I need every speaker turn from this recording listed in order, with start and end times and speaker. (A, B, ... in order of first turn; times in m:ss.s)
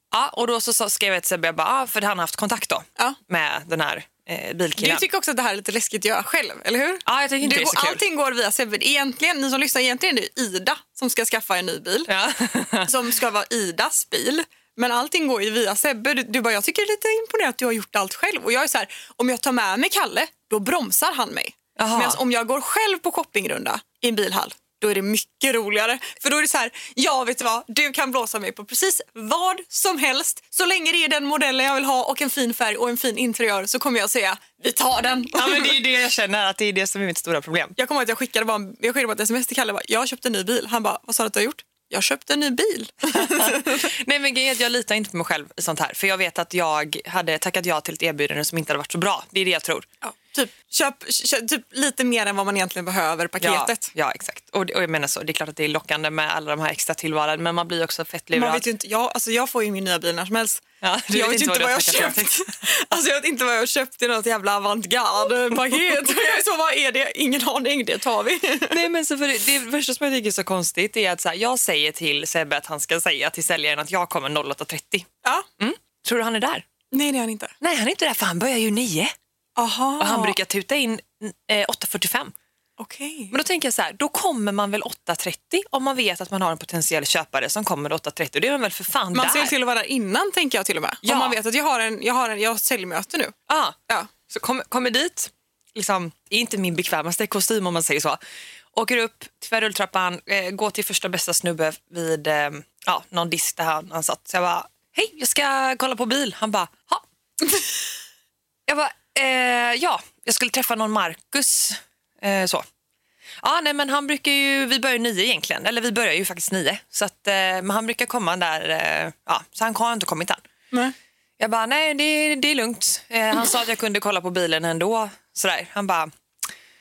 0:00.1-0:05.0 A
0:04.8-0:12.1 B
0:07.1-0:08.0 A
0:12.1-0:12.9 A
0:12.8-0:35.8 B
0:21.8-0:22.2 A
0:35.3-0:37.8 A
0:37.8-0:43.9 B
0:43.1-0:49.9 A
0:50.0-0:53.9 B
0:53.4-0:58.7 A
0:58.3-1:08.8 B
1:00.8-1:02.5 A
1:05.5-1:06.0 A
1:08.7-1:15.1 A
1:15.6-1:16.6 A
1:16.9-1:17.5 B
1:17.6-1:19.1 A
1:19.6-1:20.4 B
1:20.0-1:22.3 A
1:22.8-1:23.3 B
1:23.3-1:29.5 A
1:29.1-1:33.3 B
1:31.0-1:31.4 A
1:33.5-1:33.8 A
1:34.3-1:38.2 A
1:38.7-1:47.0 A
1:48.7-1:52.6 A
1:53.4-2:00.4 A
2:01.4-2:06.1 A